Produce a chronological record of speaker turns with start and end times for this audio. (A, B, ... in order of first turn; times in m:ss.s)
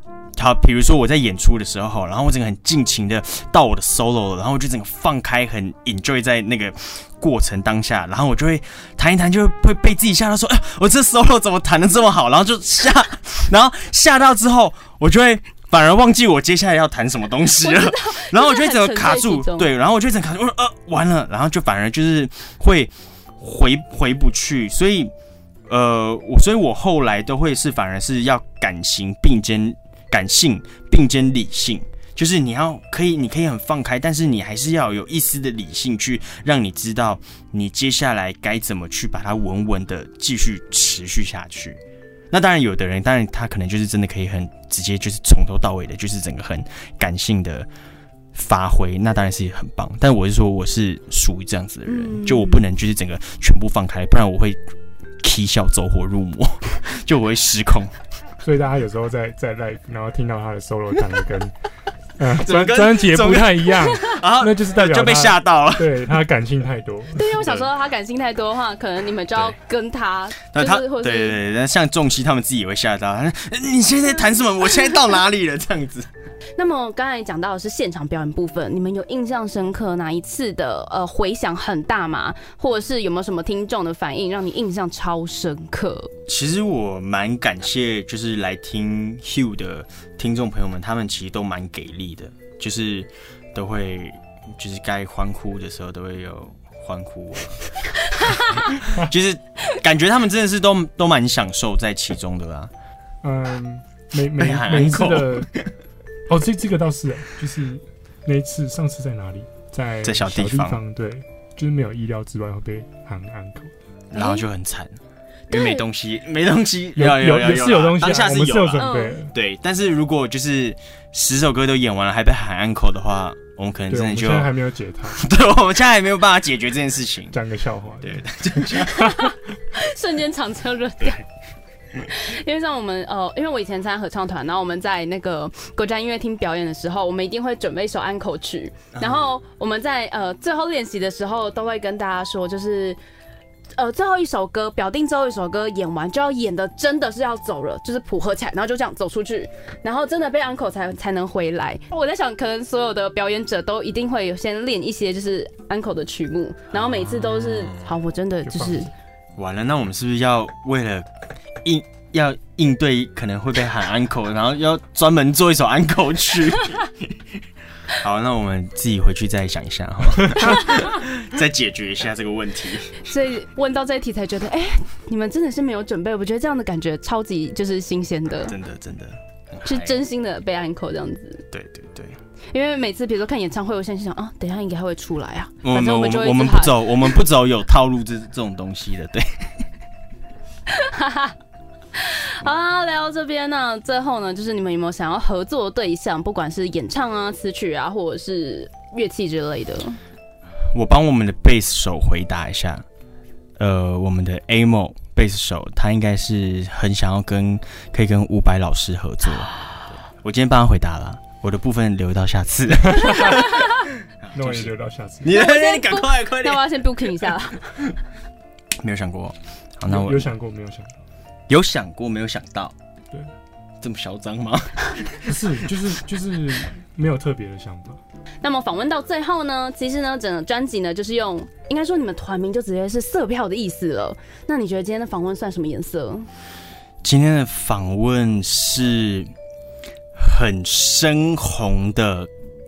0:00.4-0:25.1 A
0:17.6-0:19.7 B
0:25.7-0:41.8 A
0:42.3-0:47.7 A
0:48.3-0:54.6 A
0:51.9-0:52.6 B
0:55.2-0:57.9 A
0:58.4-1:01.6 C
1:02.2-1:07.4 C
1:02.3-1:06.1 A
1:07.2-1:11.4 B
1:07.4-1:07.7 A
1:10.5-1:16.1 A
1:16.6-1:26.1 B
1:26.3-1:37.7 A
1:38.1-1:38.7 B
1:38.4-1:42.7 A
1:43.2-1:45.5 C
1:44.4-1:45.7 A
1:46.3-1:53.7 C
1:50.0-1:50.8 A
1:54.1-1:55.0 A
1:54.2-1:54.4 B
1:55.5-2:04.5 A
1:55.5-1:55.8 B
1:57.0-1:59.3 C
1:58.8-1:59.2 B
2:03.9-2:05.2 C
2:05.1-2:07.4 A
2:07.3-2:08.3 C
2:08.0-2:09.2 A
2:08.8-2:11.2 B
2:12.0-2:23.0 B
2:19.0-2:19.2 A
2:23.8-2:38.9 B
2:36.7-2:37.9 A
2:38.4-2:38.9 C
2:39.4-2:41.1 A
2:41.6-2:47.2 A
2:47.9-2:53.1 A
2:53.0-2:58.5 B
2:58.5-3:00.0 A
2:59.6-3:01.4 B
3:01.5-3:02.2 A
3:02.5-3:07.2 B
3:05.6-3:09.5 A
3:10.7-3:11.4 B
3:12.0-3:20.0 B
3:20.7-3:22.8 A
3:23.6-3:36.8 A
3:32.9-3:33.4 C
3:34.4-3:35.4 C
3:35.3-3:37.7 B
3:38.8-3:40.3 A
3:39.9-3:41.0 C
3:41.5-3:42.7 A
3:43.8-3:45.4 A
3:45.2-3:48.0 C
3:48.4-3:56.3 B
3:57.0-3:59.3 A
4:00.2-4:02.3 A